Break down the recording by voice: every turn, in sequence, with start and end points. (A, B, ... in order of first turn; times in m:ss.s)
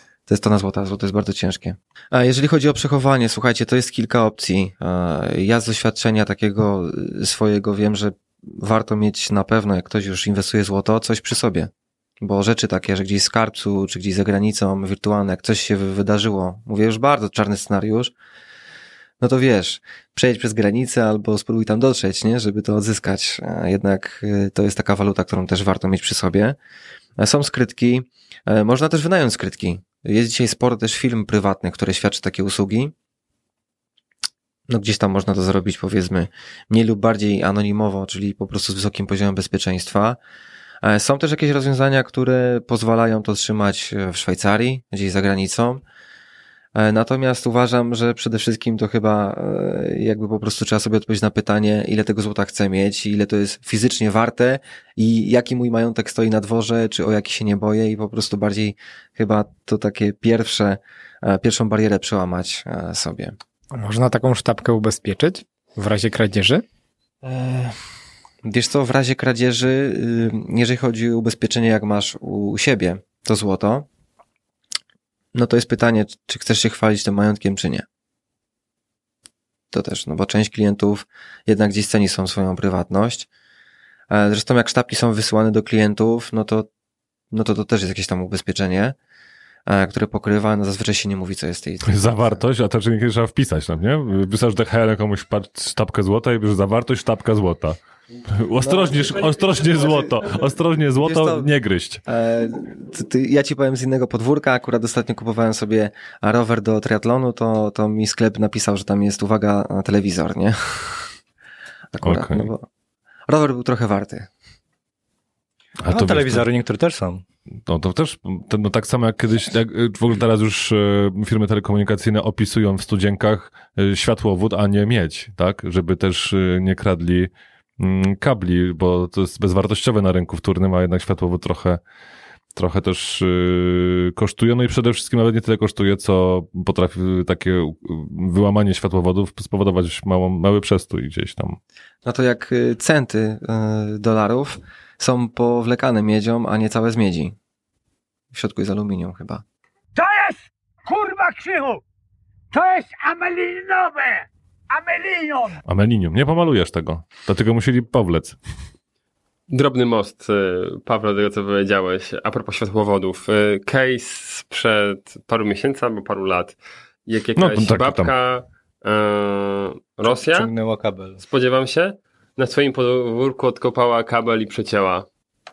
0:00.3-0:18.1 A
0:19.2-0:26.6 A
0:27.2-0:32.9 A
0:34.7-0:40.2 A
0:40.8-0:45.8 A
0:46.7-1:03.4 A
1:03.7-1:06.6 B
1:07.2-1:07.8 A
1:08.4-1:13.9 A
1:15.3-1:17.8 A
1:19.7-1:23.3 A
1:24.1-1:26.7 A
1:27.3-1:28.9 A
1:29.7-1:32.4 A
1:31.8-1:37.8 C
1:38.4-1:42.0 C
1:38.6-1:40.4 A
1:41.0-1:41.5 A
1:42.0-1:51.1 A
1:51.9-1:52.7 A
1:52.0-1:52.5 C
1:53.3-1:54.3 A
1:55.8-1:56.5 C
1:55.9-1:57.2 D
1:57.7-2:11.8 C
2:12.5-2:21.6 C
2:22.0-2:27.3 A
2:28.3-2:29.4 A
2:30.0-2:31.8 E
2:32.5-2:35.6 E
2:35.6-2:38.4 C
2:39.5-2:50.5 F
2:47.4-2:48.1 C
2:50.3-2:51.2 D
2:51.2-2:55.1 F